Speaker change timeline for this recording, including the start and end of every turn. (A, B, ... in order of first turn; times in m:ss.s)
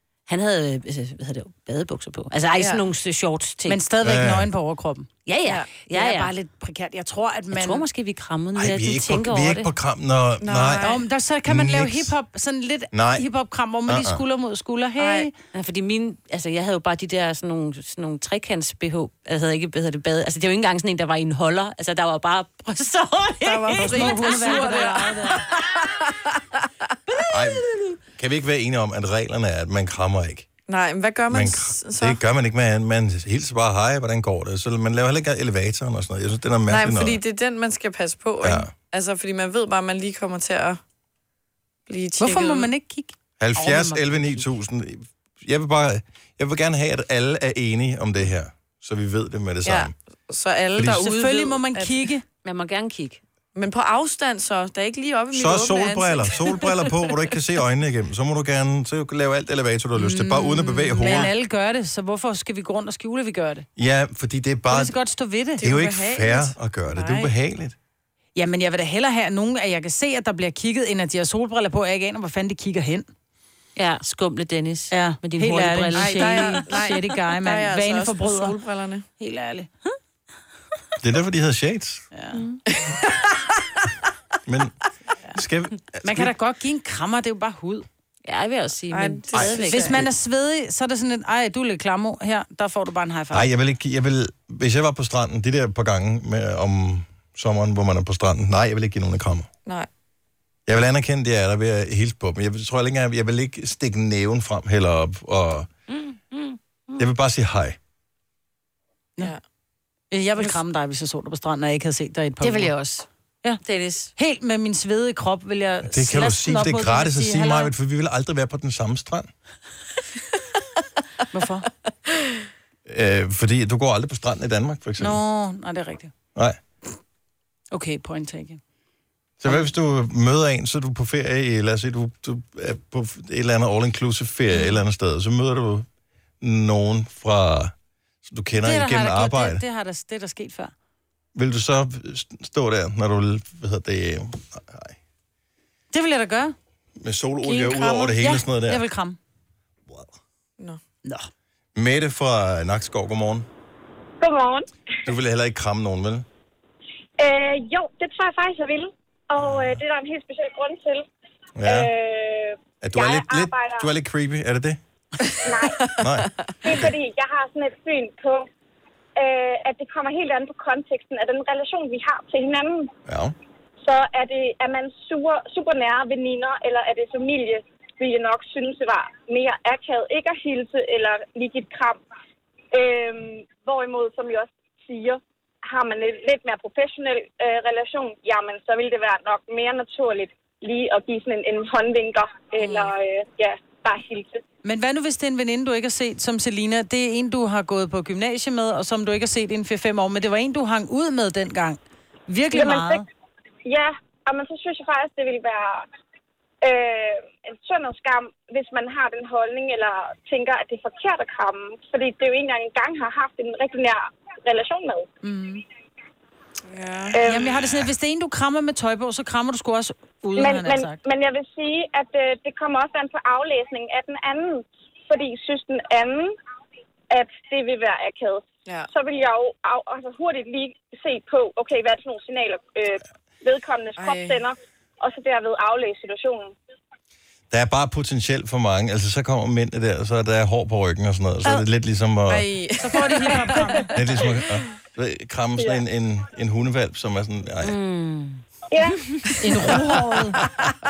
0:00.3-0:03.9 A
0:02.6-0:02.8 B
0:03.7-0:05.1 C
0:04.0-0:04.5 D
0:05.2-0:06.3 A
0:05.4-0:05.7 B
0:05.9-0:07.9 C
0:07.5-0:09.7 A
0:08.6-0:10.9 D
0:10.4-0:11.0 B
0:10.8-0:15.3 C
0:11.5-0:12.1 D
0:12.9-0:13.3 D
0:13.9-0:14.2 D
0:15.0-0:15.3 B
0:15.5-0:25.4 A
0:23.4-0:26.4 B
0:23.8-0:25.4 C
0:27.3-0:27.7 D
0:27.7-0:28.0 A
0:28.2-0:30.5 D
0:30.7-0:32.2 B
0:31.3-0:37.2 D
0:36.7-0:40.8 B
0:38.4-0:38.7 D
0:41.9-0:42.7 B
0:42.2-0:44.5 C
0:43.4-0:49.9 D
0:49.6-0:52.1 B
0:50.8-0:51.0 D
0:50.8-0:52.2 C
0:52.4-0:53.2 A
0:53.6-0:57.1 B
0:55.3-1:01.3 D
1:00.0-1:03.7 C
1:03.8-1:05.0 D
1:04.7-1:05.6 C
1:05.6-1:07.3 B
1:05.6-1:07.8 D
1:08.4-1:13.1 C
1:13.8-1:17.0 A
1:14.9-1:18.6 C
1:16.0-1:19.1 B
1:19.2-1:19.7 C
1:21.0-1:22.1 D
1:22.1-1:22.5 C
1:22.7-1:23.5 B
1:24.5-1:24.7 D
1:25.3-1:26.3 D
1:26.0-1:27.9 C
1:28.2-1:30.0 A
1:28.9-1:30.0 B
1:29.7-1:33.5 C
1:33.3-1:39.5 D
1:40.7-1:45.7 D
1:45.9-1:47.1 A
1:47.0-1:47.8 D
1:50.1-1:52.7 C
1:52.4-1:53.1 A
1:53.6-1:54.1 A
1:54.2-1:57.7 C
1:55.8-1:59.3 D
2:01.3-2:01.7 C
2:02.9-2:05.2 D
2:05.0-2:06.1 C
2:07.7-2:08.6 C
2:09.4-2:15.9 D
2:16.4-2:17.7 D
2:18.2-2:19.6 D
2:18.6-2:20.7 C
2:21.4-2:25.0 D
2:25.9-2:26.6 C
2:27.0-2:28.8 D
2:27.4-2:28.1 B
2:28.0-2:29.2 C
2:31.8-2:33.5 D
2:34.2-2:34.7 E
2:35.0-2:36.2 D
2:37.2-2:41.1 E
2:39.4-2:39.8 D
2:41.6-2:41.9 D
2:41.6-2:43.9 E
2:42.8-2:44.8 D
2:45.4-2:45.8 E
2:45.6-2:46.5 B
2:46.0-2:46.9 D
2:46.6-2:48.5 E
2:49.2-2:52.9 E
2:53.1-2:53.3 D
2:53.8-3:02.0 E
3:02.7-3:14.4 E
3:12.6-3:12.9 B
3:14.6-3:23.0 C
3:22.5-3:23.0 E
3:23.6-3:25.9 E
3:26.6-3:35.1 E
3:35.2-3:35.6 C
3:36.7-3:37.2 B
3:37.1-3:37.7 E
3:37.2-3:41.0 C
3:40.4-3:46.4 E
3:47.1-3:56.5 E
3:54.0-3:54.4 B
3:57.5-4:02.5 D
4:02.3-4:04.0 B
4:02.8-4:03.9 C
4:03.9-4:07.8 D
4:07.6-4:08.4 A
4:08.7-4:09.0 E
4:09.4-4:10.4 C